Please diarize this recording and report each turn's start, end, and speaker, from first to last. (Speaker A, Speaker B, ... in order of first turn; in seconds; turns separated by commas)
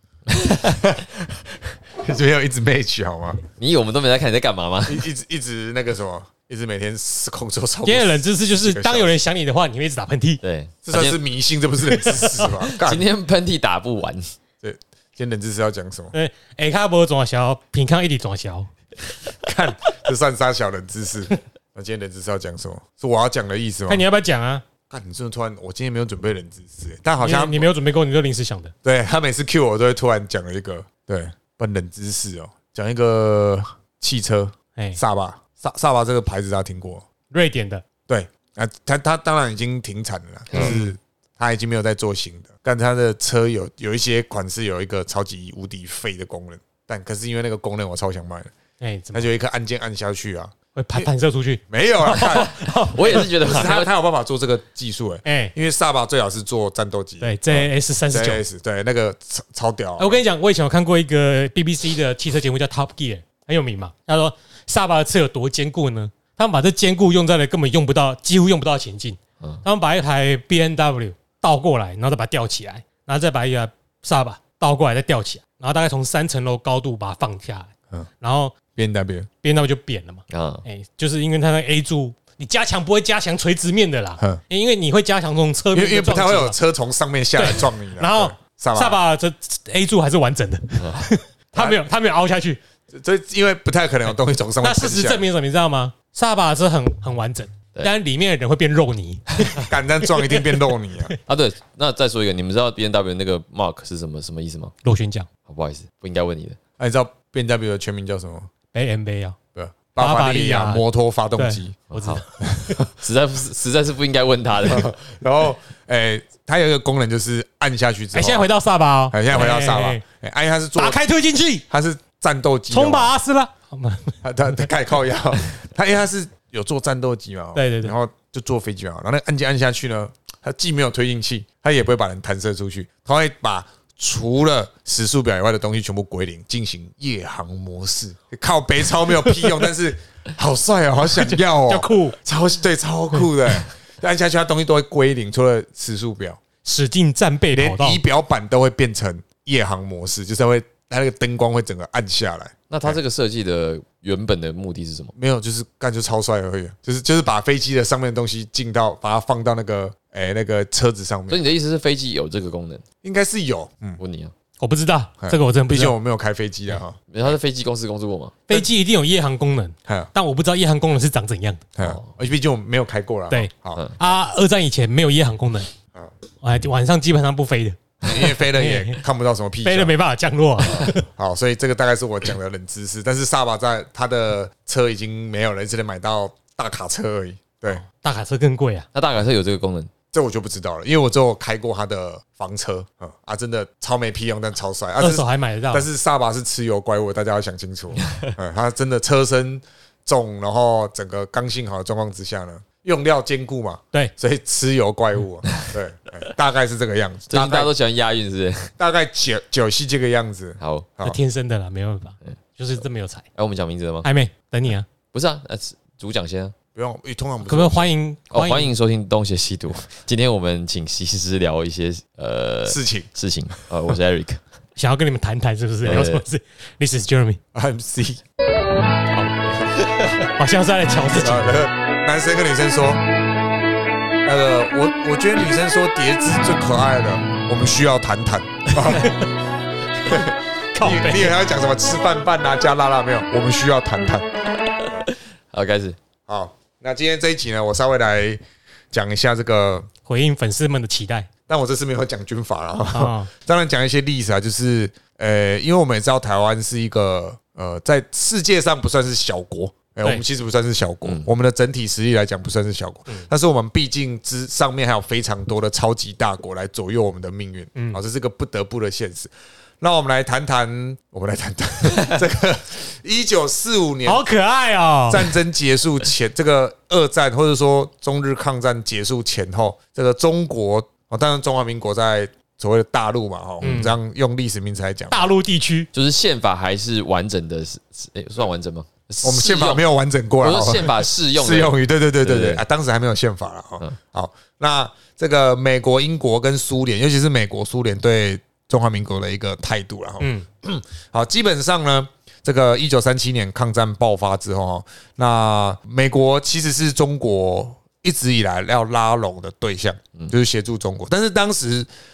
Speaker A: 0.6-1.1, Speaker A: 1.9-3.4, Speaker B: 3.6-5.1, Speaker A: 4.9-9.1, Speaker C: 7.8-10.4, Speaker B: 10.4-11.2, Speaker A: 10.8-13.0, Speaker C: 11.9-12.5, Speaker B: 12.7-14.2, Speaker A: 14.6-16.1, Speaker C: 16.1-18.7, Speaker A: 19.4-24.0, Speaker C: 23.9-24.6, Speaker A: 24.9-27.7, Speaker C: 27.2-28.7, Speaker A: 28.8-37.0, Speaker C: 37.3-37.8, Speaker A: 38.1-48.5, Speaker B: 40.5-40.8, Speaker C: 40.5-40.9, Speaker C: 48.8-49.3, Speaker A: 49.1-51.1, Speaker C: 50.7-53.3, Speaker A: 51.7-60.2, Speaker B: 52.3-53.9, Speaker C: 55.2-55.5, Speaker C: 57.2-58.4, Speaker C: 60.0-78.5, Speaker A: 78.7-79.3, Speaker C: 79.4-86.5, Speaker B: 80.3-80.6, Speaker A: 85.7-89.0, Speaker C: 87.3-92.6, Speaker B: 90.8-91.1, Speaker A: 92.9-95.2, Speaker C: 94.6-101.1, Speaker A: 99.6-101.1, Speaker B: 101.3-104.7, Speaker C: 104.8-105.3, Speaker B: 105.5-106.6, Speaker A: 106.8-108.5, Speaker C: 108.7-109.4, Speaker A: 109.5-111.8, Speaker C: 110.0-110.8, Speaker C: 111.4-112.8, Speaker B: 111.9-112.2, Speaker A: 112.5-112.9, Speaker B: 112.9-114.9, Speaker A: 114.6-118.5, Speaker C: 118.1-120.0, Speaker A: 119.1-121.0, Speaker C: 120.8-121.7, Speaker A: 121.7-123.1, Speaker C: 122.7-124.7, Speaker A: 124.2-146.4, Speaker C: 127.5-127.9, Speaker C: 141.1-142.2, Speaker C: 146.6-148.0, Speaker A: 147.5-153.0, Speaker B: 152.7-155.1, Speaker A: 155.1-161.4, Speaker B: 161.3-162.8, Speaker A: 163.0-164.0, Speaker B: 164.0-164.3, Speaker C: 164.6-165.9, Speaker A: 165.2-167.0, Speaker B: 167.1-168.4, Speaker C: 168.5-171.6, Speaker A: 171.8-173.8, Speaker B: 171.8-172.1, Speaker C: 173.3-175.7, Speaker C: 176.4-179.0, Speaker A: 178.0-179.9, Speaker C: 179.6-181.1, Speaker A: 181.1-187.8, Speaker C: 187.8-188.9, Speaker B: 188.9-189.9, Speaker A: 190.1-207.7, Speaker C: 195.0-195.8, Speaker B: 207.3-208.7, Speaker A: 208.8-211.2, Speaker B: 210.6-210.9, Speaker C: 211.0-213.2, Speaker B: 213.3-214.1, Speaker C: 214.0-214.9, Speaker B: 215.1-216.5, Speaker A: 216.7-217.9, Speaker C: 217.5-218.7, Speaker B: 218.3-224.4, Speaker A: 222.7-223.6, Speaker C: 224.8-227.4, Speaker B: 225.8-226.2, Speaker A: 227.5-228.2, Speaker B: 229.6-230.2, Speaker C: 230.3-231.6, Speaker A: 231.1-233.0, Speaker A: 234.2-239.1, Speaker C: 238.8-239.2, Speaker A: 240.0-244.3, Speaker C: 240.1-241.4, Speaker B: 245.1-246.0, Speaker A: 246.2-248.4, Speaker A: 248.9-249.9, Speaker C: 250.0-251.3, Speaker A: 251.5-269.3, Speaker C: 252.9-253.3, Speaker A: 269.8-274.2, Speaker C: 274.1-275.3, Speaker A: 275.1-285.3, Speaker C: 283.6-284.0, Speaker C: 285.1-285.9, Speaker B: 285.9-289.8, Speaker A: 289.2-311.9, Speaker B: 290.4-292.6, Speaker C: 300.2-300.4